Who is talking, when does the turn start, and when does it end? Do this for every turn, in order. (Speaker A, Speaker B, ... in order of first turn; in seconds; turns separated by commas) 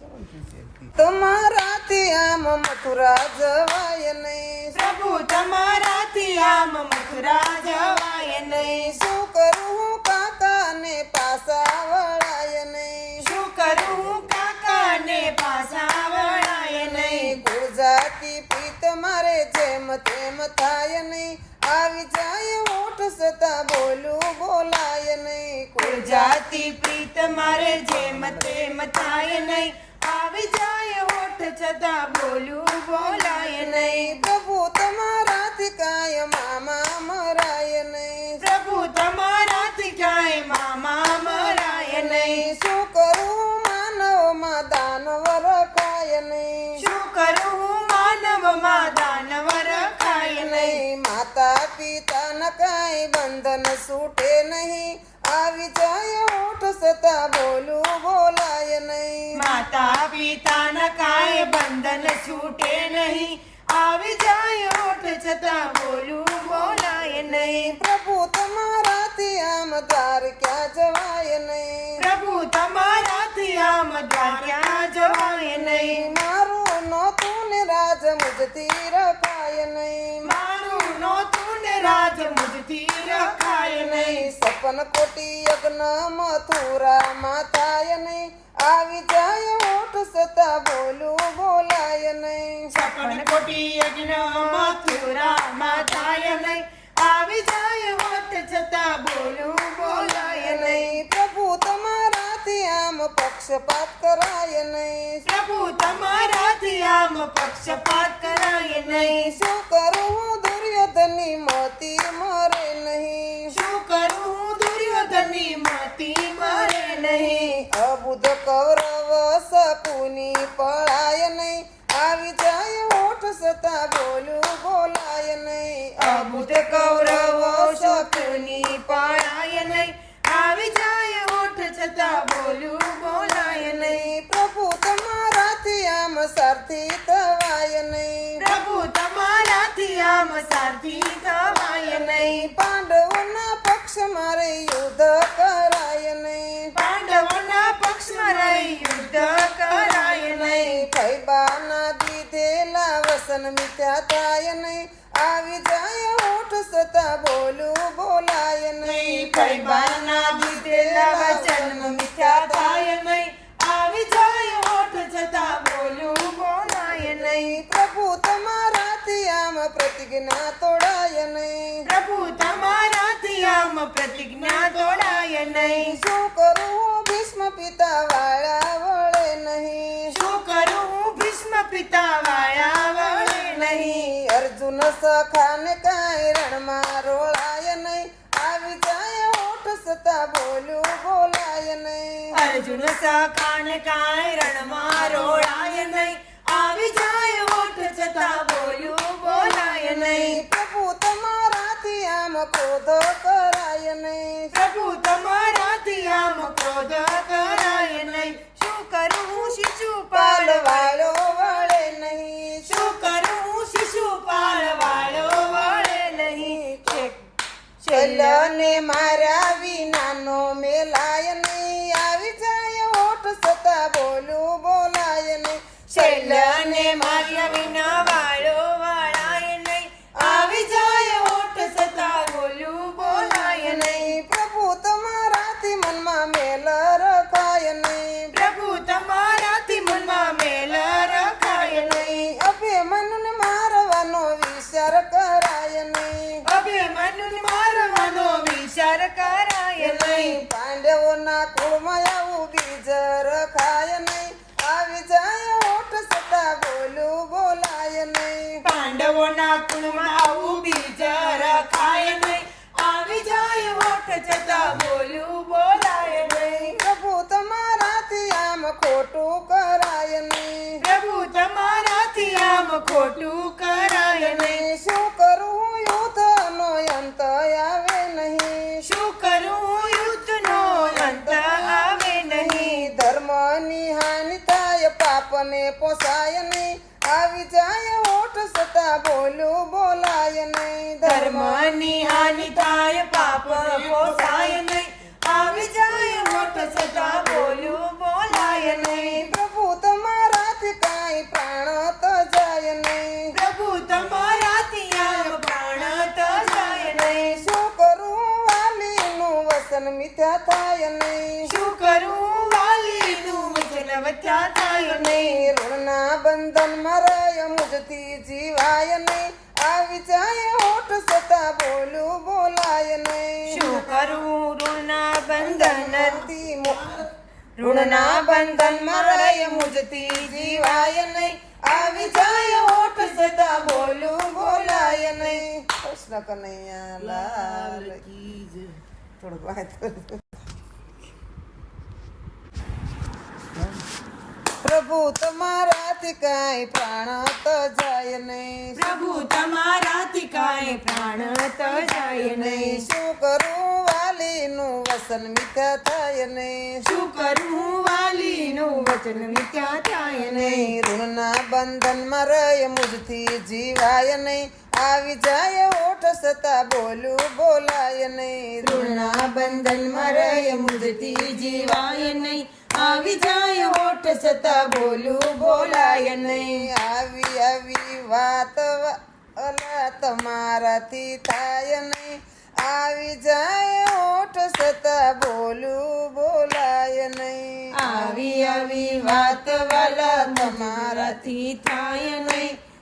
Speaker A: 1.0-4.8, Speaker B: 4.7-9.0, Speaker A: 8.7-13.2, Speaker B: 13.2-17.4, Speaker A: 16.8-26.4, Speaker B: 25.8-34.2, Speaker A: 33.2-38.4, Speaker B: 38.4-42.5, Speaker A: 41.7-46.8, Speaker B: 46.8-50.8, Speaker A: 50.3-59.3, Speaker B: 59.4-67.8, Speaker A: 67.1-72.0, Speaker B: 72.0-76.1, Speaker A: 75.4-80.3, Speaker B: 80.2-84.3, Speaker A: 83.7-92.7, Speaker B: 92.7-101.0, Speaker A: 99.8-105.2, Speaker B: 105.2-109.3, Speaker A: 109.0-113.5, Speaker B: 113.5-117.6, Speaker A: 117.5-128.9, Speaker B: 126.0-134.1, Speaker A: 133.3-138.4, Speaker B: 138.4-142.5, Speaker A: 142.2-146.7, Speaker B: 146.7-150.8, Speaker A: 149.7-162.9, Speaker B: 158.8-167.6, Speaker A: 166.6-171.8, Speaker B: 171.9-176.0, Speaker A: 175.8-180.2, Speaker B: 180.1-184.1, Speaker A: 183.0-192.3, Speaker B: 192.3-200.4, Speaker A: 199.5-204.5, Speaker B: 204.5-211.2, Speaker A: 210.1-212.7, Speaker B: 212.7-217.3, Speaker A: 216.3-217.1, Speaker B: 217.8-218.6, Speaker A: 217.9-227.9, Speaker B: 225.9-234.1, Speaker A: 230.2-230.6, Speaker A: 233.1-238.3, Speaker B: 238.3-242.3, Speaker A: 242.0-246.4, Speaker B: 246.5-250.4, Speaker A: 249.8-258.6, Speaker B: 258.6-266.7, Speaker A: 266.1-270.8, Speaker B: 270.8-274.6, Speaker A: 274.2-278.8, Speaker B: 278.8-282.9, Speaker A: 280.4-291.6, Speaker B: 291.0-299.3, Speaker A: 294.0-294.4, Speaker A: 298.5-303.3, Speaker B: 303.3-307.4, Speaker A: 306.8-311.5, Speaker B: 311.5-315.4, Speaker A: 314.8-323.9, Speaker B: 323.5-326.3, Speaker A: 325.4-327.1, Speaker B: 327.6-331.2, Speaker A: 327.6-338.0, Speaker B: 337.1-338.7, Speaker A: 339.2-340.2, Speaker A: 344.6-348.8, Speaker B: 348.8-352.9, Speaker A: 351.9-356.8, Speaker B: 356.8-360.8, Speaker A: 360.3-372.2, Speaker B: 368.6-376.7, Speaker A: 374.6-391.3, Speaker B: 387.8-392.6